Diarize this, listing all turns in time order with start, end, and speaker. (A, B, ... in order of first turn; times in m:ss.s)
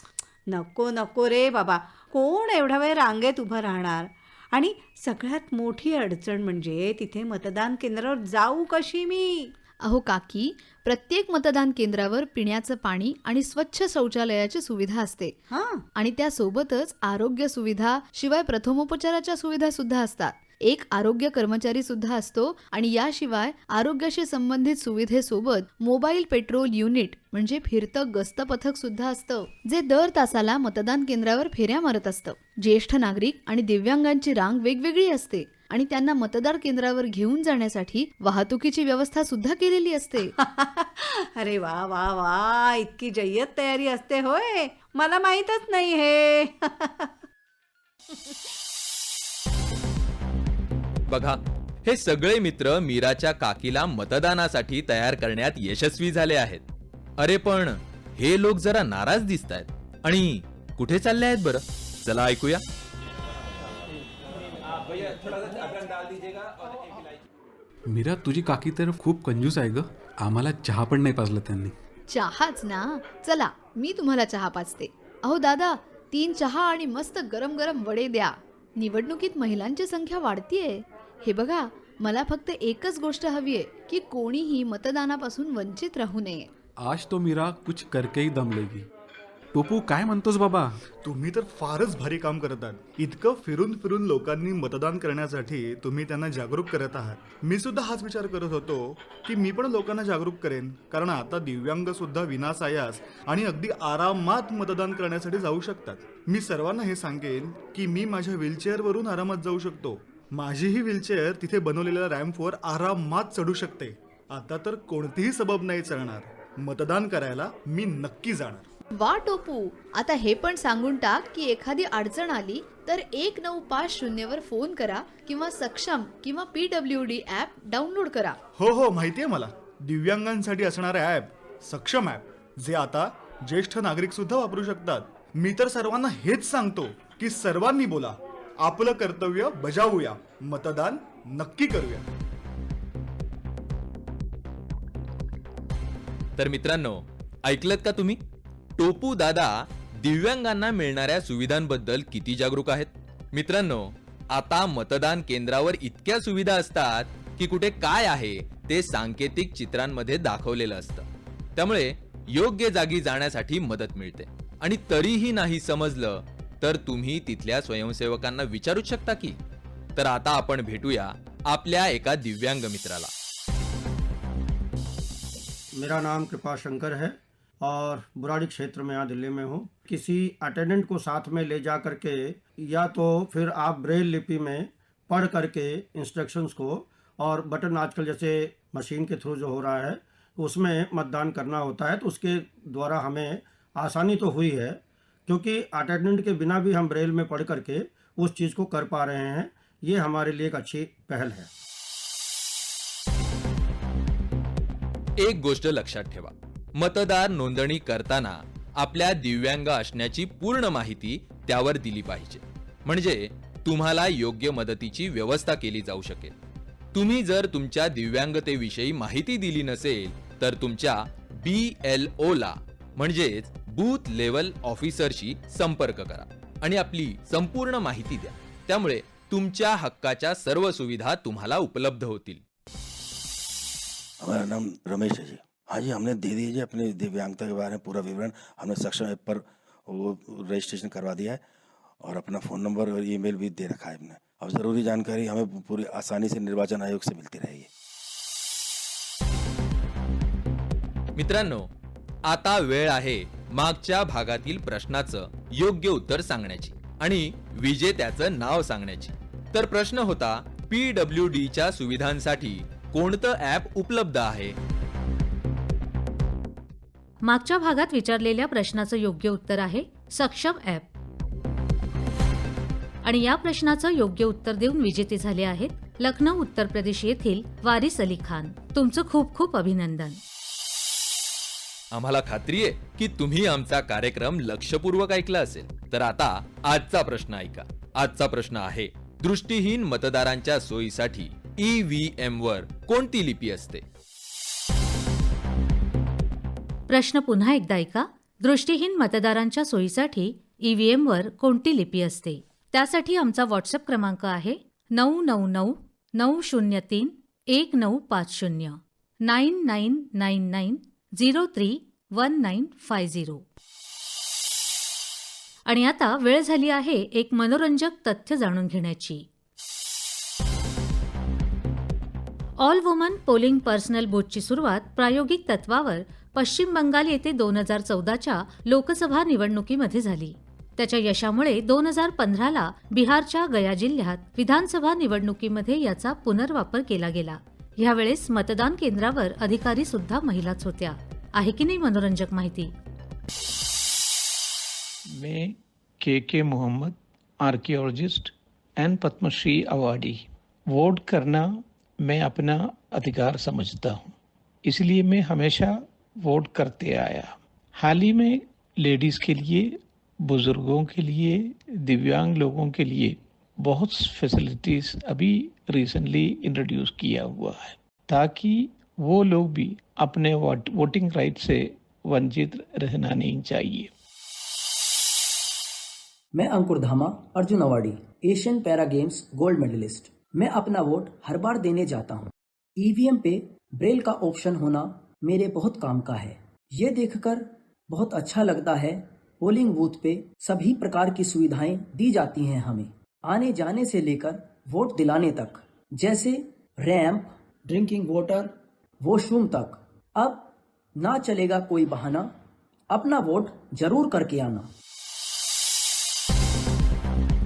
0:00.5-0:09.5 A
0:09.8-0:15.3 B
0:15.5-0:15.8 A
0:15.9-0:40.3 B
0:40.2-0:47.1 A
0:51.1-0:56.6 C
0:57.2-1:02.6 C
1:07.9-1:11.7 D
1:12.1-1:26.5 B
1:26.8-1:28.9 D
1:29.5-1:30.8 D
1:31.0-1:58.6 E
1:59.0-2:08.4 B
2:08.6-2:22.0 E
2:26.4-2:28.2 C
2:28.8-2:41.0 C
2:41.6-2:49.4 C
2:50.0-2:53.1 C
2:55.7-3:21.5 F
3:25.2-3:36.3 C
3:36.9-3:52.4 C
3:54.2-4:01.4 G
4:02.0-4:07.7 G
4:11.2-4:11.7 C
4:12.3-4:24.6 C
4:27.2-4:30.9 H
4:33.0-4:40.2 H
4:41.9-4:53.8 C
4:56.9-5:13.4 H
5:15.6-5:19.2 H
5:22.6-5:42.7 H
5:45.2-5:51.5 I
5:52.0-5:54.1 I
5:54.7-5:55.7 I
5:56.2-5:59.7 I
6:00.3-6:03.2 I
6:03.8-6:13.9 I
6:16.3-6:42.3 J
6:42.9-6:44.7 J